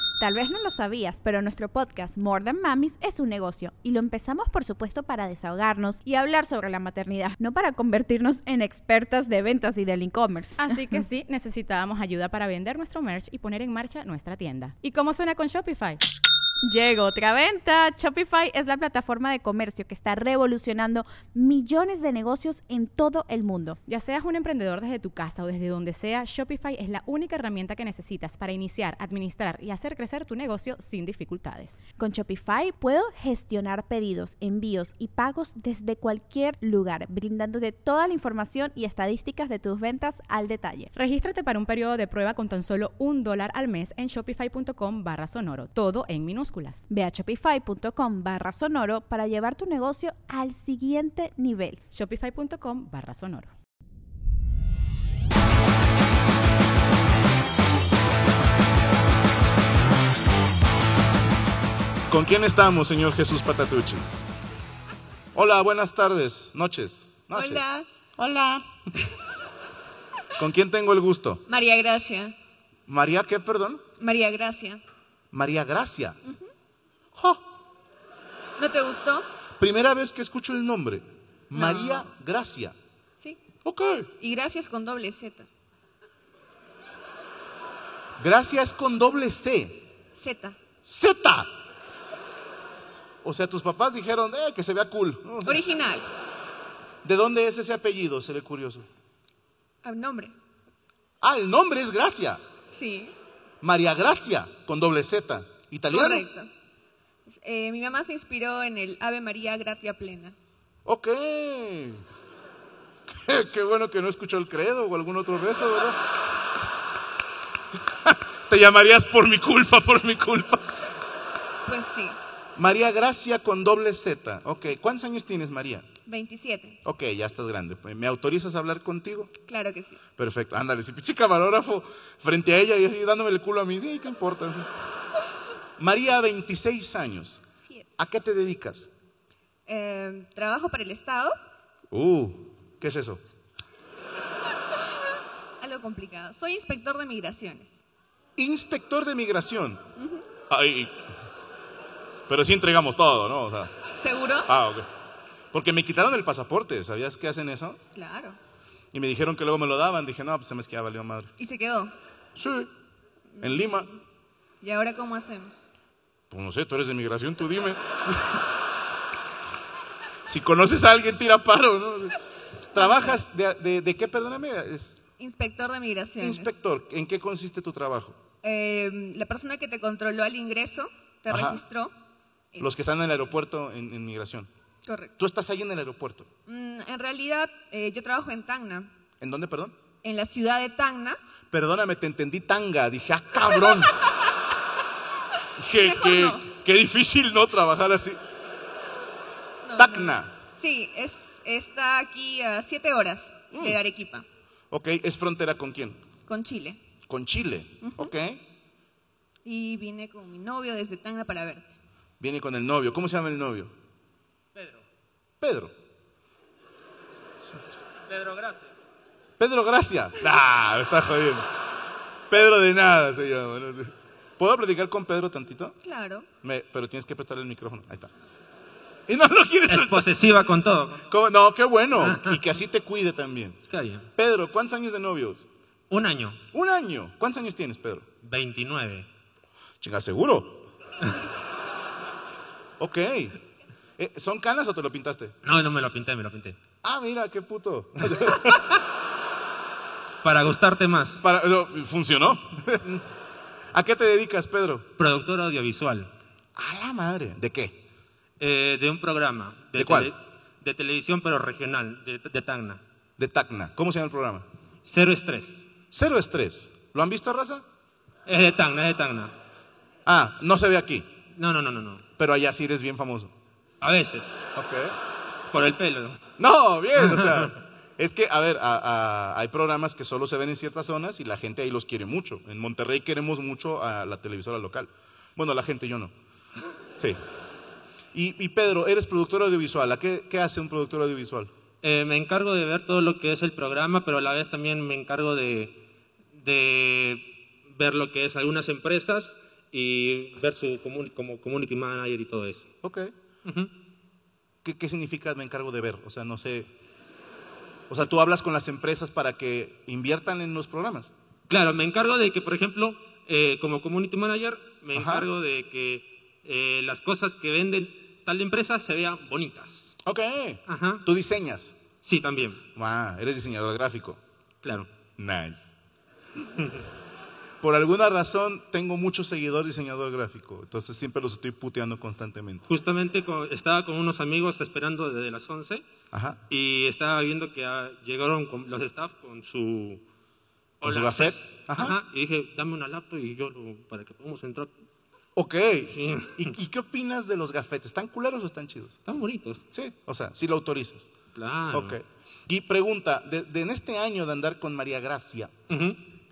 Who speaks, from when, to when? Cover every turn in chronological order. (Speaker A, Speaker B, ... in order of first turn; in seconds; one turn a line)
Speaker A: 0.2-11.0
Speaker B: 10.6-16.0
Speaker A: 16.6-23.8
Speaker B: 23.9-31.8
Speaker A: 32.0-40.9
Speaker B: 40.9-46.8
Speaker A: 46.9-51.8
Speaker B: 51.9-53.5
Speaker C: 62.1-64.1
Speaker C: 65.3-67.6
Speaker D: 67.3-67.8
Speaker C: 68.2-69.0
Speaker C: 70.3-71.4
Speaker D: 71.5-72.3
Speaker C: 72.9-73.8
Speaker D: 74.0-74.8
Speaker C: 75.3-76.2
Speaker C: 77.1-77.4
Speaker D: 78.6-79.2
Speaker C: 79.6-82.8
Speaker D: 81.5-82.0
Speaker C: 83.6-84.1
Speaker D: 84.2-85.5
Speaker C: 88.2-89.8
Speaker D: 90.1-90.6
Speaker C: 90.8-91.5
Speaker C: 93.2-95.6
Speaker D: 95.4-96.1
Speaker C: 97.0-98.8
Speaker D: 99.8-100.3
Speaker C: 101.2-102.4
Speaker D: 102.7-103.1
Speaker C: 103.6-106.3
Speaker D: 105.9-106.5
Speaker D: 107.2-110.3
Speaker C: 110.8-112.0
Speaker C: 113.1-116.0
Speaker C: 117.7-120.7
Speaker D: 121.7-122.2
Speaker C: 122.5-125.9
Speaker D: 126.0-126.8
Speaker C: 126.8-129.3
Speaker D: 129.5-130.0
Speaker C: 130.2-134.7
Speaker C: 135.8-137.4
Speaker D: 137.5-137.8
Speaker C: 138.0-138.9
Speaker D: 139.7-141.4
Speaker C: 141.9-143.2
Speaker D: 145.6-147.8
Speaker C: 148.4-149.8
Speaker D: 150.0-150.2
Speaker C: 150.5-150.9
Speaker C: 152.3-153.7
Speaker D: 154.0-154.5
Speaker C: 154.4-154.8
Speaker C: 155.5-157.8
Speaker D: 157.9-158.4
Speaker C: 158.9-161.3
Speaker D: 161.4-161.9
Speaker C: 162.3-162.7
Speaker D: 163.3-163.8
Speaker C: 163.4-163.9
Speaker D: 164.6-165.7
Speaker C: 166.3-168.4
Speaker C: 170.2-172.1
Speaker C: 172.7-175.0
Speaker D: 172.8-173.2
Speaker D: 175.2-176.5
Speaker C: 176.2-178.2
Speaker D: 178.4-181.9
Speaker C: 181.3-181.6
Speaker C: 182.6-184.5
Speaker D: 184.8-185.1
Speaker C: 185.2-186.3
Speaker D: 186.5-188.9
Speaker C: 189.2-189.8
Speaker D: 190.0-191.2
Speaker C: 191.5-193.9
Speaker C: 195.6-198.2
Speaker D: 195.8-196.5
Speaker D: 199.6-204.2
Speaker C: 199.8-200.3
Speaker C: 203.5-203.8
Speaker C: 204.7-206.0
Speaker D: 206.3-206.8
Speaker C: 207.1-208.4
Speaker D: 207.8-208.1
Speaker D: 209.4-211.7
Speaker C: 212.2-213.7
Speaker E: 214.5-214.8
Speaker C: 215.4-215.7
Speaker E: 218.1-218.7
Speaker C: 219.4-221.5
Speaker C: 222.3-225.8
Speaker D: 225.8-226.3
Speaker C: 226.4-228.1
Speaker C: 229.1-230.1
Speaker E: 229.7-231.1
Speaker C: 231.1-233.6
Speaker E: 232.0-232.4
Speaker E: 233.7-234.1
Speaker C: 234.2-235.5
Speaker E: 235.9-236.4
Speaker C: 236.5-238.1
Speaker E: 238.2-239.1
Speaker C: 239.8-240.6
Speaker C: 242.8-243.3
Speaker C: 244.0-245.3
Speaker E: 245.4-246.6
Speaker C: 246.8-248.6
Speaker E: 248.1-248.6
Speaker E: 250.2-251.2
Speaker C: 251.2-253.0
Speaker C: 253.7-254.9
Speaker E: 255.0-256.1
Speaker C: 256.6-257.8
Speaker E: 258.4-262.8
Speaker C: 259.7-260.1
Speaker C: 263.2-264.4
Speaker E: 264.8-265.6
Speaker C: 265.9-267.6
Speaker E: 268.2-269.3
Speaker C: 270.1-271.1
Speaker E: 271.4-272.0
Speaker C: 272.2-273.3
Speaker E: 273.8-274.4
Speaker C: 274.6-275.0
Speaker E: 275.5-276.2
Speaker C: 276.4-286.1
Speaker E: 277.0-277.5
Speaker C: 288.1-291.5
Speaker E: 291.8-295.8
Speaker E: 296.3-302.7
Speaker C: 302.8-303.1
Speaker E: 303.4-303.7
Speaker C: 304.6-306.7
Speaker C: 307.9-311.1
Speaker E: 311.5-319.9
Speaker C: 314.9-315.3
Speaker C: 320.0-321.7
Speaker E: 320.7-321.0
Speaker E: 322.0-322.6
Speaker C: 322.8-324.2
Speaker E: 324.6-324.9
Speaker C: 325.2-325.7
Speaker C: 327.6-332.6
Speaker E: 332.7-335.8
Speaker C: 336.1-336.4
Speaker E: 336.5-340.0
Speaker E: 340.8-344.7
Speaker C: 340.8-342.0
Speaker C: 345.4-349.0
Speaker E: 345.9-346.5
Speaker E: 349.1-349.6
Speaker C: 349.7-351.1
Speaker E: 351.3-352.0
Speaker C: 351.7-355.5
Speaker E: 355.7-356.0